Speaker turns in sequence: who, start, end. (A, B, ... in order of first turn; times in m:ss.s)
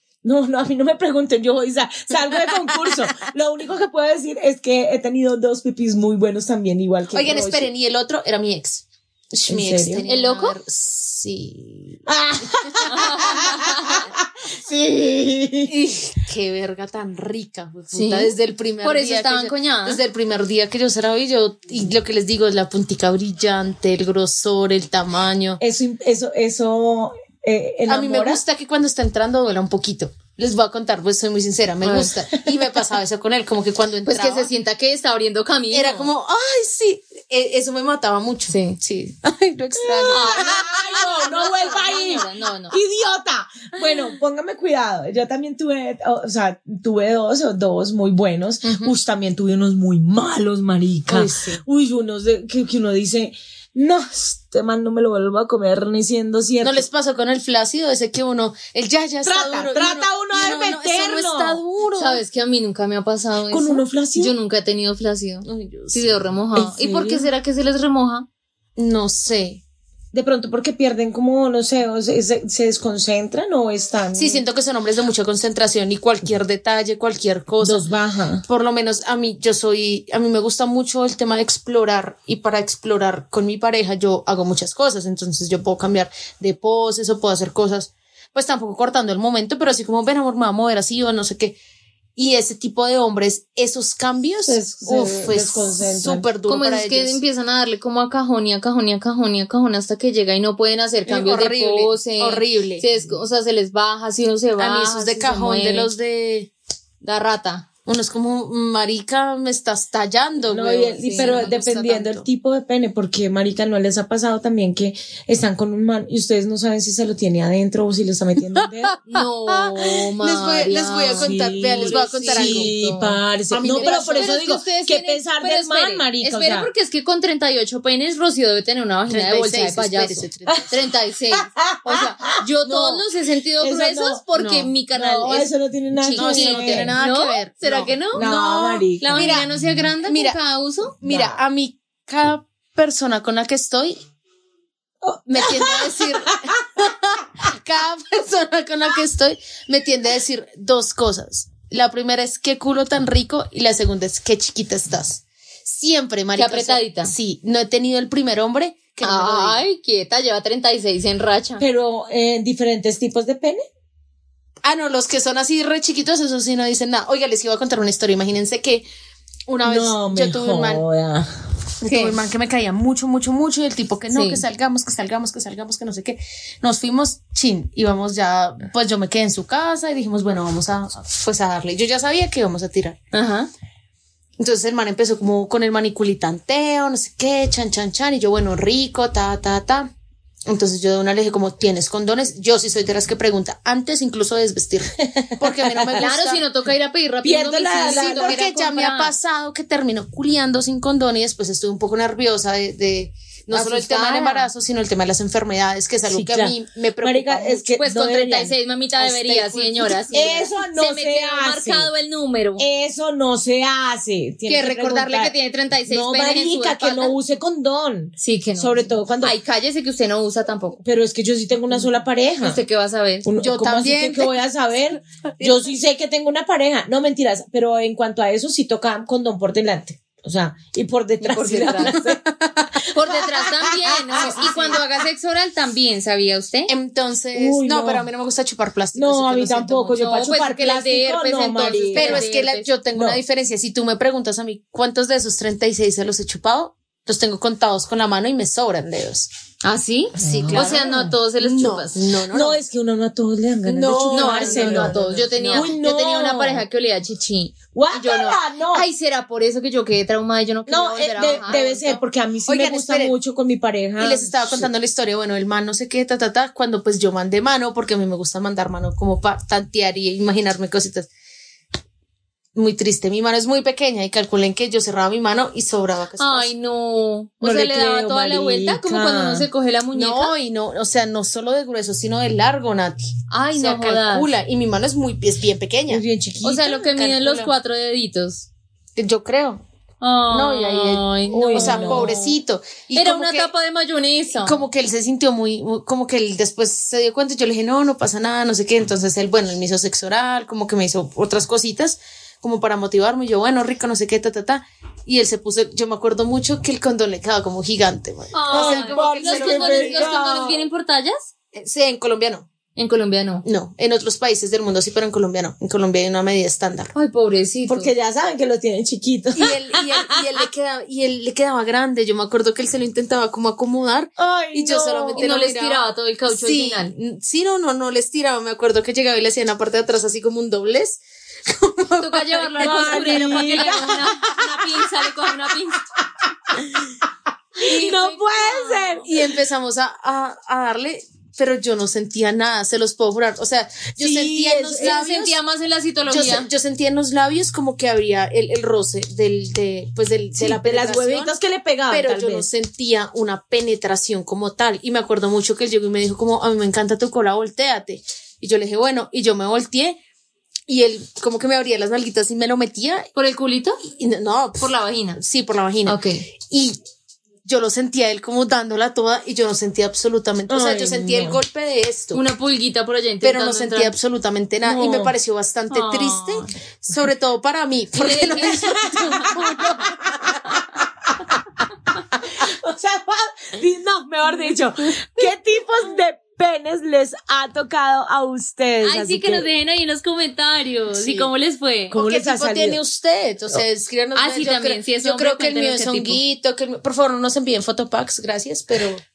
0:00.2-0:07.7 A
0:07.1-0:13.6 B
0:09.5-0:10.0 A
0:10.0-0:10.6 C
0:12.0-0:15.7 A
0:12.9-0:14.1 C
0:15.7-0:25.6 B
0:17.9-0:20.0 C
0:25.6-0:28.4 A
0:27.9-0:34.5 B
0:31.8-0:32.1 C
0:34.0-0:36.1 C
0:35.7-0:41.4 B
0:38.5-0:38.8 C
0:39.8-0:56.8 A
0:40.1-0:42.8 C
0:48.6-0:48.9 B
0:51.1-0:51.6 B
0:56.6-1:02.2 B
0:59.2-1:01.6 A
1:02.0-1:08.3 C
1:03.5-1:04.3 A
1:05.4-1:06.1 B
1:06.6-1:07.3 A
1:08.8-1:09.6 B
1:10.1-1:14.4 A
1:14.1-1:17.8 B
1:17.6-1:18.4 A
1:18.4-1:31.6 B
1:32.2-1:37.2 B
1:34.4-1:36.2 A
1:36.5-1:45.9 C
1:41.0-1:42.9 B
1:44.6-1:46.5 B
1:47.0-1:47.6 C
1:47.8-1:52.3 B
1:50.5-1:58.9 A
1:51.0-1:51.5 C
1:58.6-2:02.7 B
1:59.1-2:18.3 C
2:01.2-2:06.7 A
2:03.5-2:04.3 B
2:09.1-2:10.7 B
2:11.3-2:13.0 A
2:13.6-2:14.2 A
2:14.3-2:14.7 B
2:14.9-2:17.0 A
2:16.1-2:19.5 B
2:18.1-2:19.3 A
2:19.0-2:21.0 C
2:20.0-2:20.4 B
2:21.0-2:24.0 B
2:21.0-2:21.4 A
2:25.0-2:26.7 A
2:25.3-2:39.6 B
2:36.4-2:37.1 C
2:39.0-2:41.6 C
2:41.6-2:43.6 A
2:44.6-2:48.8 B
2:49.5-2:50.8 B
2:49.6-2:51.3 A
2:51.8-3:03.0 B
2:51.8-2:52.2 C
2:54.1-2:54.4 C
3:03.1-3:03.5 C
3:04.4-3:09.9 B
3:10.5-3:16.4 B
3:15.1-3:16.0 A
3:16.0-3:19.1 C
3:17.2-3:18.4 A
3:17.8-3:27.7 B
3:23.5-3:24.5 C
3:26.0-3:28.5 A
3:27.8-3:32.6 C
3:29.0-3:30.5 B
3:30.1-3:31.9 A
3:32.6-3:35.3 A
3:34.5-3:37.1 C
3:35.9-3:39.3 A
3:38.2-3:40.8 C
3:40.8-3:42.6 A
3:42.4-3:43.3 C
3:43.2-3:52.2 A
3:43.4-3:44.4 B
3:45.4-3:45.7 B
3:51.2-3:52.0 C
3:51.8-3:52.8 B
3:52.9-3:56.7 C
3:53.2-3:54.8 A
3:54.2-3:54.8 B
3:56.7-4:00.0 B
3:57.3-3:58.1 A
3:58.9-4:02.2 A
3:59.9-4:02.7 C
4:01.9-4:09.3 B
4:02.9-4:03.2 A
4:09.6-4:12.0 C
4:10.2-4:11.1 A
4:10.2-4:12.6 B
4:12.3-4:16.6 A
4:13.6-4:15.7 B
4:14.1-4:22.0 C
4:17.7-4:18.8 A
4:20.7-4:24.7 A
4:21.2-4:23.1 B
4:24.0-4:31.1 B
4:32.5-4:36.5 B
4:36.2-4:40.3 C
4:37.4-4:39.5 A
4:39.9-4:46.0 B
4:43.3-4:44.3 C
4:45.9-4:46.8 A
4:46.4-4:48.5 C
4:46.7-4:47.5 B
4:49.0-4:49.6 B
4:50.0-4:52.4 C
4:50.3-4:53.5 B
4:51.3-4:52.1 A
4:52.9-4:54.6 C
4:54.4-5:10.2 B
5:08.3-5:11.3 C
5:08.5-5:10.6 A
5:11.5-5:12.5 B
5:12.8-5:13.4 C
5:13.4-5:16.9 B
5:16.9-5:17.9 C
5:17.7-5:20.2 A
5:19.4-5:33.9 B
5:24.2-5:25.2 A
5:25.2-5:26.9 C
5:32.0-5:35.8 C
5:32.6-5:34.5 A
5:36.5-5:36.8 A
5:37.6-5:39.1 A
5:37.6-5:38.1 B
5:37.7-5:39.0 C
5:39.0-5:45.4 B
5:43.9-5:44.9 A
5:44.7-5:46.5 C
5:46.0-5:51.3 B
5:50.3-5:52.5 A
5:51.9-6:00.0 B
6:00.7-6:03.1 B
6:03.1-6:03.8 C
6:03.9-6:06.8 B
6:04.6-6:05.2 C
6:05.8-6:06.3 C
6:07.4-6:12.2 B
6:10.5-6:11.4 A
6:12.1-6:13.9 C
6:13.2-6:20.4 B
6:14.6-6:15.1 A
6:15.7-6:16.5 C
6:17.9-6:19.5 C
6:19.2-6:20.6 A
6:22.2-6:29.5 A
6:28.8-6:31.9 C
6:30.9-6:31.3 B
6:31.9-6:32.8 A
6:31.9-6:39.0 B
6:34.2-6:36.2 C